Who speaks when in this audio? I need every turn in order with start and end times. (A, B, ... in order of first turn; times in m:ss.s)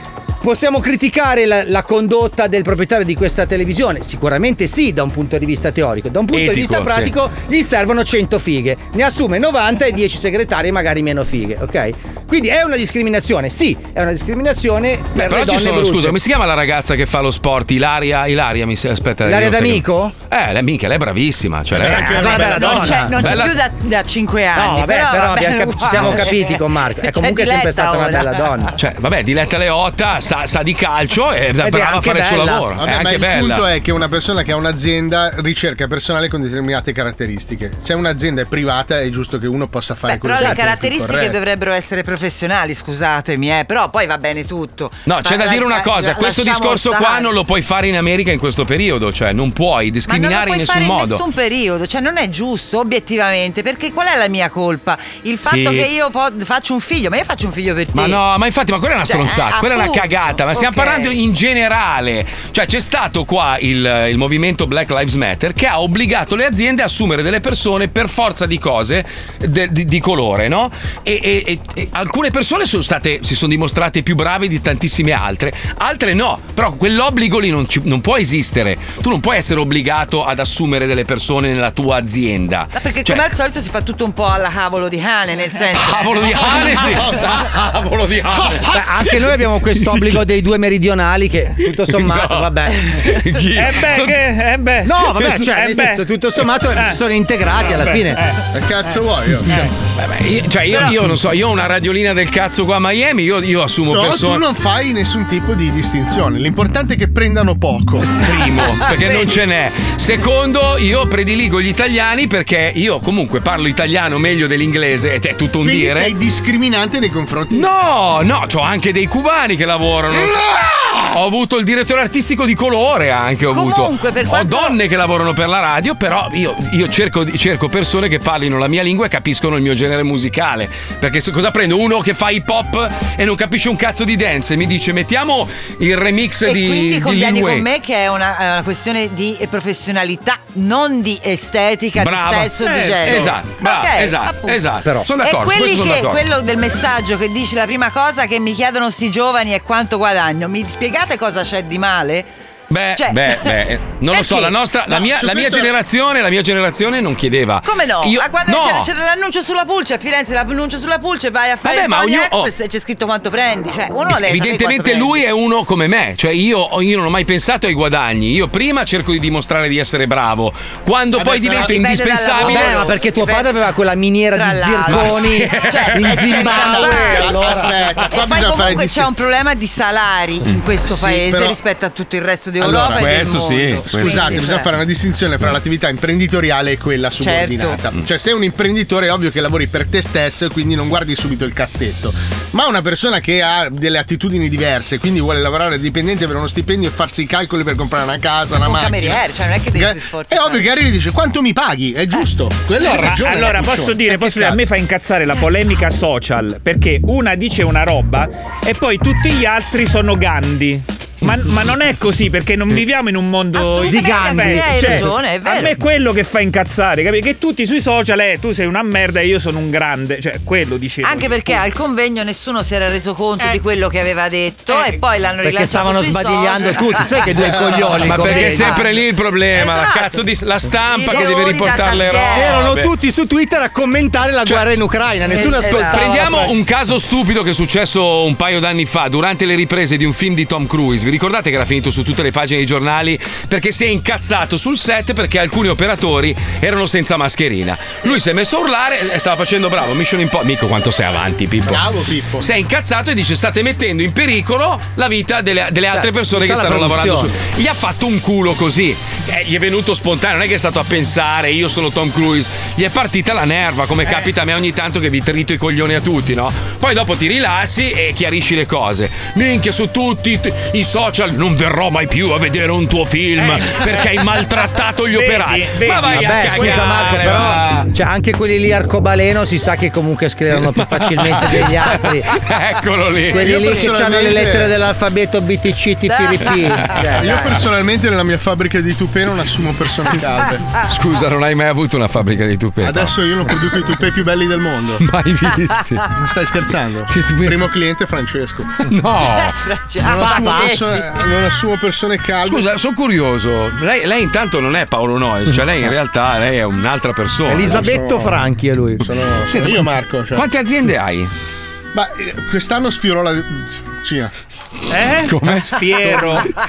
0:00.4-0:16.2 A
0:06.3-0:07.1 B
0:15.2-0:23.6 B
0:19.2-0:20.2 A
0:21.8-0:23.1 C
0:21.8-0:23.3 A
0:22.1-0:28.7 D
0:24.5-0:28.7 A
0:28.8-0:33.7 B
0:31.6-0:32.7 A
0:32.8-0:41.4 C
0:40.0-0:47.4 D
0:45.1-0:51.2 B
0:50.1-0:58.2 D
0:55.4-0:55.9 B
0:57.9-1:23.3 B
0:59.1-1:01.2 D
1:22.8-1:27.0 D
1:25.7-1:29.1 B
1:28.6-1:32.8 A
1:29.8-1:30.2 B
1:31.9-1:34.2 B
1:33.6-1:36.0 E
1:34.8-1:38.2 A
1:35.2-1:35.5 B
1:36.7-1:37.0 E
1:37.6-1:38.4 E
1:38.5-1:39.7 C
1:40.0-1:44.4 B
1:43.9-1:48.2 C
1:48.2-1:56.1 B
1:55.6-1:57.7 C
1:57.5-2:17.7 B
2:00.3-2:01.0 C
2:03.5-2:04.8 D
2:16.4-2:24.6 D
2:22.0-2:26.3 B
2:22.6-2:23.4 E
2:25.2-2:32.3 D
2:32.7-2:38.9 B
2:33.0-2:33.6 D
2:34.1-2:34.6 D
2:34.9-2:35.7 C
2:37.6-2:45.2 D
2:41.6-2:42.5 B
2:44.1-2:52.9 B
2:51.2-2:51.8 C
2:51.5-2:53.5 D
2:52.4-2:57.8 A
2:54.3-2:57.3 D
2:54.9-2:57.0 B
2:56.5-2:59.1 C
2:58.1-3:04.7 D
3:00.8-3:01.6 C
3:02.6-3:03.3 C
3:02.8-3:04.4 B
3:03.9-3:24.7 C
3:07.2-3:07.8 D
3:18.6-3:20.7 D
3:22.9-3:41.6 E
3:33.6-3:35.8 D
3:33.9-3:35.0 A
3:41.0-3:47.2 D
3:44.7-3:45.0 E
3:45.4-3:48.8 A
3:48.0-3:52.9 B
3:48.2-3:48.9 D
3:49.5-3:50.2 D
3:50.9-3:52.6 D
3:52.3-3:56.6 A
3:55.3-3:56.3 D
3:55.4-4:11.8 B
4:11.7-4:12.5 C
4:12.4-4:37.9 B
4:15.9-4:17.3 A
4:33.4-4:33.9 E
4:35.1-4:37.3 E
4:36.1-4:42.3 A
4:40.6-4:43.9 B
4:43.3-4:47.6 A
4:43.3-4:44.7 C
4:46.1-4:47.4 D
4:46.5-4:47.1 B
4:47.2-4:50.6 C
4:50.8-4:53.1 B
4:52.8-4:55.0 C
4:55.0-4:56.1 B
4:56.1-4:58.8 C
4:57.1-4:57.6 B
4:58.9-4:59.6 B
4:59.2-5:01.1 D
5:00.0-5:02.7 C
5:00.0-5:00.8 A
5:02.4-5:07.9 B
5:07.5-5:09.1 A
5:07.6-5:08.4 C
5:09.0-5:10.5 C
5:09.5-5:11.3 B
5:11.9-5:14.3 C
5:14.9-5:16.5 E
5:15.2-5:16.4 B